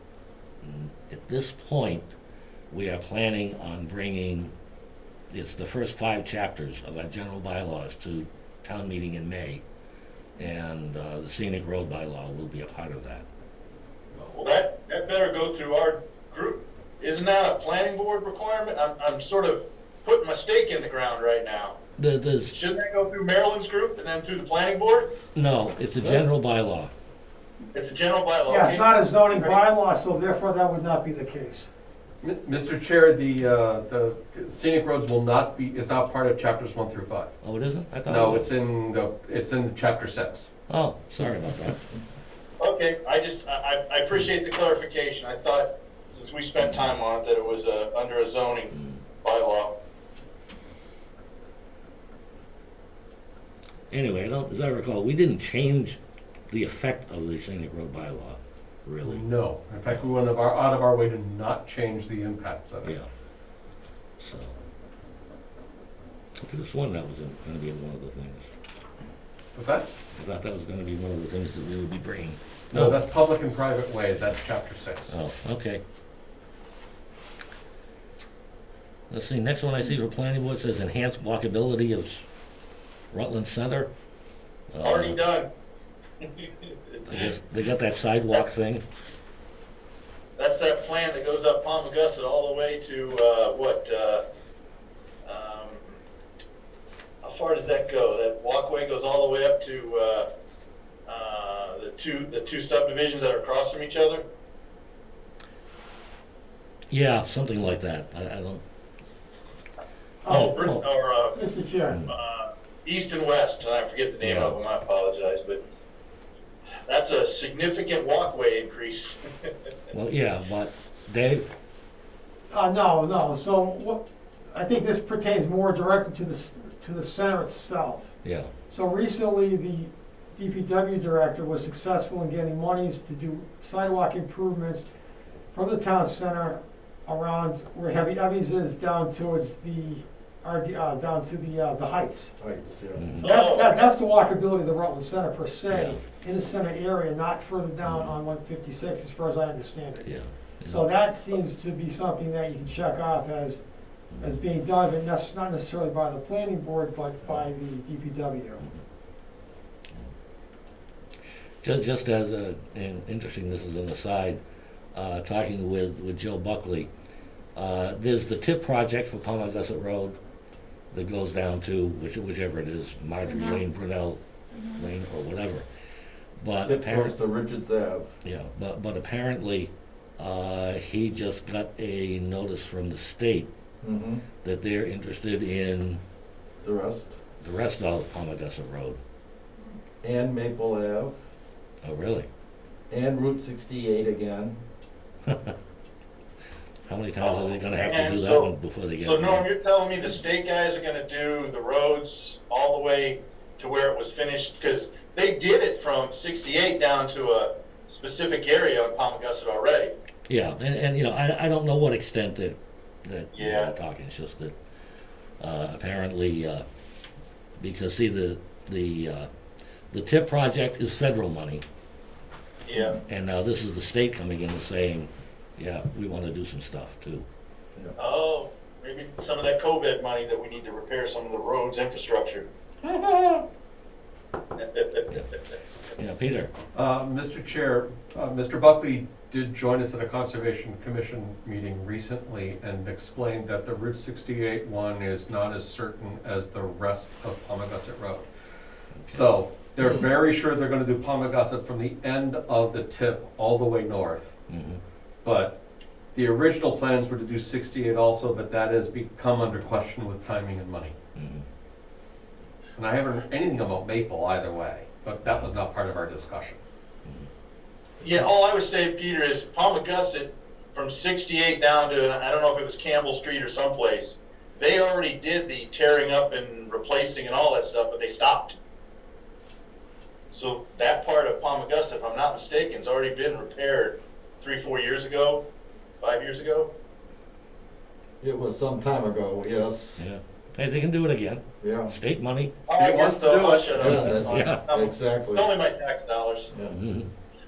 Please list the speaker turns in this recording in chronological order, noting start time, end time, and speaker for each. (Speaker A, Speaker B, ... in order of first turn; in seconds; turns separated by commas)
Speaker A: 0.6-2.1, Speaker A: 2.7-4.5, Speaker A: 5.3-9.6, Speaker A: 10.4-13.2, Speaker B: 14.3-21.8, Speaker A: 22.0-22.6, Speaker B: 22.5-25.1, Speaker A: 25.4-26.9, Speaker B: 27.7-29.6, Speaker C: 28.5-31.7, Speaker D: 32.2-37.3, Speaker A: 37.4-38.5, Speaker D: 38.1-40.5, Speaker A: 40.7-41.9, Speaker B: 42.6-49.7, Speaker A: 46.6-46.9, Speaker A: 48.7-49.0, Speaker A: 53.9-56.0, Speaker A: 56.5-59.2, Speaker D: 59.0-63.0, Speaker A: 64.2-64.6, Speaker A: 66.4-68.5, Speaker D: 69.5-70.0, Speaker A: 70.2-73.0, Speaker D: 72.7-75.2, Speaker A: 75.1-75.8, Speaker A: 79.1-82.2, Speaker A: 83.1-83.9, Speaker A: 84.7-85.2, Speaker B: 84.8-85.5, Speaker B: 86.4-87.3, Speaker A: 87.1-88.8, Speaker B: 90.4-94.2, Speaker B: 95.2-95.8, Speaker B: 97.2-100.3, Speaker B: 101.1-104.2, Speaker A: 106.9-108.6, Speaker C: 110.2-110.6, Speaker B: 110.2-111.3, Speaker A: 110.5-110.8, Speaker C: 111.3-112.0, Speaker B: 112.1-115.6, Speaker A: 114.2-114.6, Speaker B: 116.9-119.5, Speaker A: 119.9-121.5, Speaker C: 122.5-128.1, Speaker A: 128.2-128.5, Speaker C: 128.7-134.9, Speaker C: 135.5-142.3, Speaker E: 142.4-143.0, Speaker A: 143.0-143.4, Speaker C: 143.2-150.2, Speaker B: 143.2-143.8, Speaker A: 145.7-146.0, Speaker A: 147.8-148.2, Speaker A: 150.0-150.9, Speaker C: 150.7-153.6, Speaker C: 154.2-158.7, Speaker A: 161.6-164.4, Speaker A: 164.9-166.9, Speaker A: 167.6-170.2, Speaker A: 170.9-174.2, Speaker A: 174.7-175.7, Speaker A: 176.4-177.2, Speaker E: 176.6-178.1, Speaker A: 178.2-183.5, Speaker E: 183.8-184.2, Speaker A: 184.4-186.0, Speaker E: 186.6-187.2, Speaker A: 187.4-189.0, Speaker E: 190.0-191.2, Speaker A: 191.8-192.3, Speaker E: 192.9-194.6, Speaker A: 195.3-195.5, Speaker A: 196.9-199.5, Speaker B: 197.2-209.9, Speaker A: 210.3-214.5, Speaker B: 213.3-213.7, Speaker A: 215.4-216.7, Speaker A: 217.6-219.3, Speaker A: 219.9-221.6, Speaker B: 222.7-223.0, Speaker A: 223.1-227.3, Speaker B: 228.0-232.5, Speaker E: 232.8-233.4, Speaker B: 234.6-235.1, Speaker A: 236.0-236.5, Speaker D: 236.7-248.3, Speaker A: 248.9-249.3, Speaker D: 249.1-254.3, Speaker A: 249.8-250.1, Speaker A: 254.5-254.8, Speaker D: 255.2-255.6, Speaker D: 256.1-260.9, Speaker A: 261.1-261.4, Speaker D: 262.8-266.6, Speaker A: 265.2-265.5, Speaker B: 268.0-278.6, Speaker B: 280.3-285.4, Speaker B: 286.0-286.7, Speaker E: 288.2-290.0, Speaker A: 290.0-292.6, Speaker E: 291.6-291.9, Speaker B: 292.7-296.5, Speaker D: 292.7-293.9, Speaker E: 293.8-295.5, Speaker A: 293.8-294.6, Speaker E: 296.5-296.8, Speaker A: 296.7-297.1